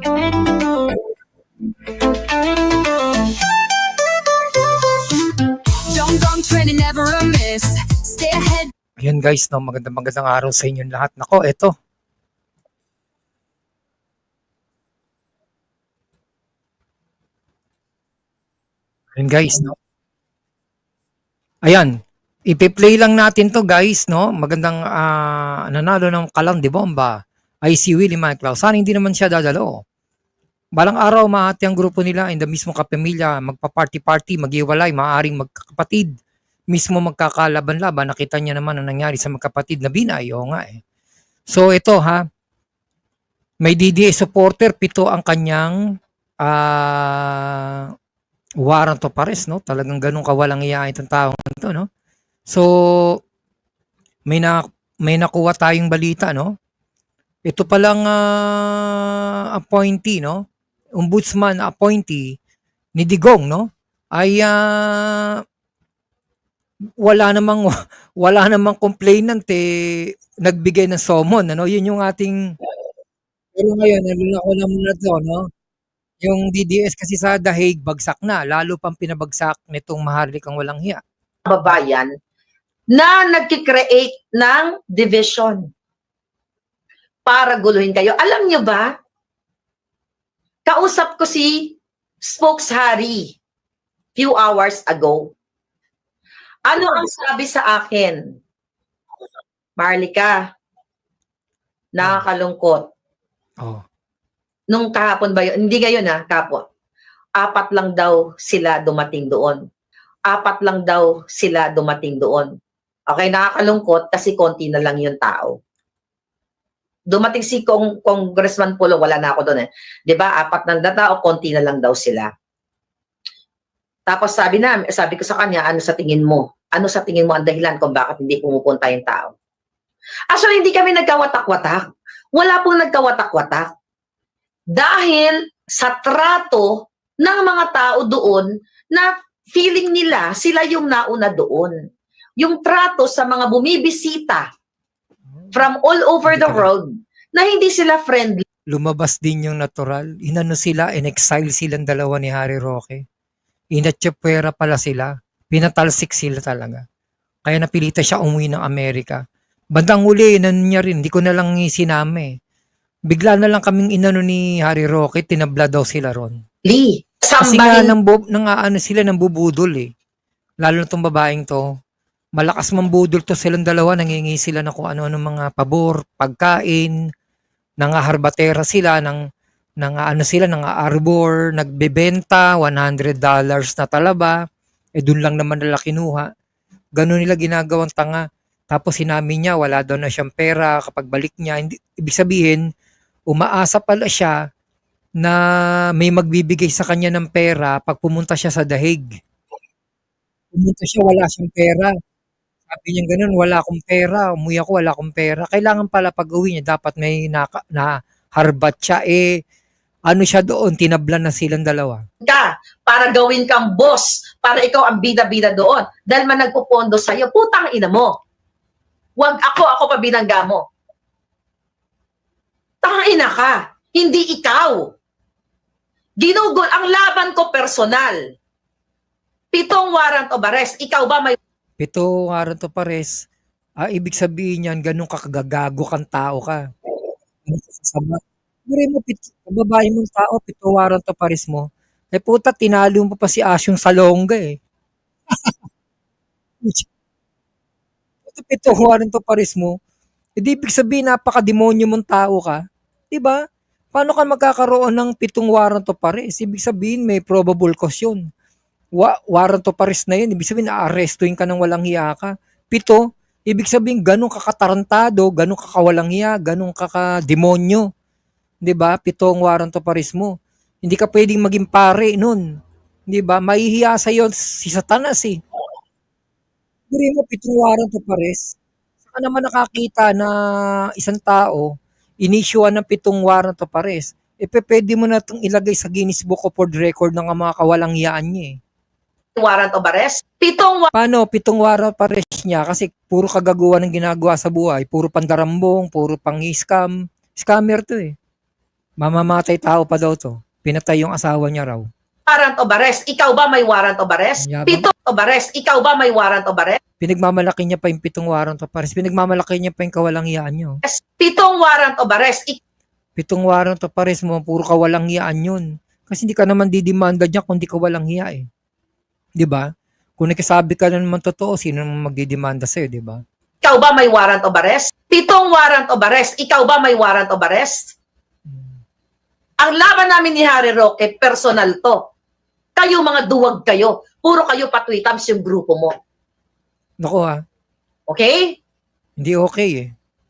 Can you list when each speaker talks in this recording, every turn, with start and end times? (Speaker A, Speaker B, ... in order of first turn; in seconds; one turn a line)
Speaker A: 5.4-8.7
Speaker B: 9.0-11.7
Speaker B: 19.1-19.8
Speaker B: 21.6-21.9
Speaker B: 22.5-29.8
Speaker B: 30.8-36.1
Speaker B: 36.7-40.8
Speaker B: 41.5-42.2
Speaker B: 43.6-45.8
Speaker B: 46.4-47.9
Speaker B: 48.6-51.9
Speaker B: 52.5-53.2
Speaker B: 54.3-56.5
Speaker B: 57.5-60.4
Speaker B: 61.0-62.3
Speaker B: 63.0-65.4
Speaker B: 67.0-72.5
Speaker B: 73.5-75.5
Speaker B: 76.2-81.0
Speaker C: 81.5-82.1
Speaker C: 82.9-85.7
Speaker C: 87.2-88.9
Speaker C: 90.7-93.3
Speaker C: 94.2-95.3
Speaker C: 96.7-98.3
Speaker C: 99.8-100.4
Speaker C: 102.0-102.9
Speaker C: 104.7-106.6
Speaker C: 107.4-109.6
Speaker C: 110.3-112.5
Speaker C: 113.1-115.6
Speaker C: 117.1-122.3
Speaker C: 124.1-129.3
Speaker C: 130.3-133.7
Speaker C: 134.7-141.7
Speaker C: 142.4-144.5
Speaker C: 145.5-148.4
Speaker B: 146.2-146.7
Speaker B: 148.7-153.0
Speaker B: 153.7-156.8
Speaker B: 157.4-159.2
Speaker B: 159.7-162.3
Speaker B: 163.1-166.4
Speaker C: 166.6-167.9
Speaker B: 167.4-169.9
Speaker B: 170.6-171.6
Speaker B: 172.4-176.9
Speaker B: 177.8-179.2
Speaker B: 179.8-184.4
Speaker B: 185.0-186.3
Speaker B: 187.0-192.6
Speaker B: 193.3-194.4
Speaker B: 196.0-199.2
Speaker B: 200.5-201.9
Speaker B: 202.7-209.4
Speaker B: 210.1-212.0
Speaker C: 212.2-218.1
Speaker C: 219.2-220.6
Speaker C: 222.8-224.9
Speaker C: 226.2-228.2
Speaker C: 229.5-231.4
Speaker B: 231.8-233.2
Speaker B: 233.8-236.6
Speaker B: 237.4-244.6
Speaker B: 245.3-245.6
Speaker B: 246.6-246.9
Speaker B: 248.2-249.8
Speaker B: 250.4-253.4
Speaker B: 253.9-258.2
Speaker B: 259.0-267.9
Speaker B: 268.6-272.4
Speaker B: 273.1-275.4
Speaker B: 276.9-278.6
Speaker B: 279.1-280.4
Speaker B: 281.0-288.6
Speaker C: 289.4-290.9
Speaker B: 290.9-298.1
Speaker B: 299.0-301.9
Speaker C: 302.3-306.8
Speaker B: 304.4-304.9
Speaker B: 307.0-310.8
Speaker C: 310.8-312.6
Speaker B: 313.2-318.5
Speaker B: 319.4-323.2
Speaker C: 323.6-327.9
Speaker B: 328.5-328.7
Speaker C: 329.6-332.0
Speaker C: 332.8-335.9
Speaker B: 337.0-337.4
Speaker C: 338.1-338.6
Speaker B: 339.2-339.9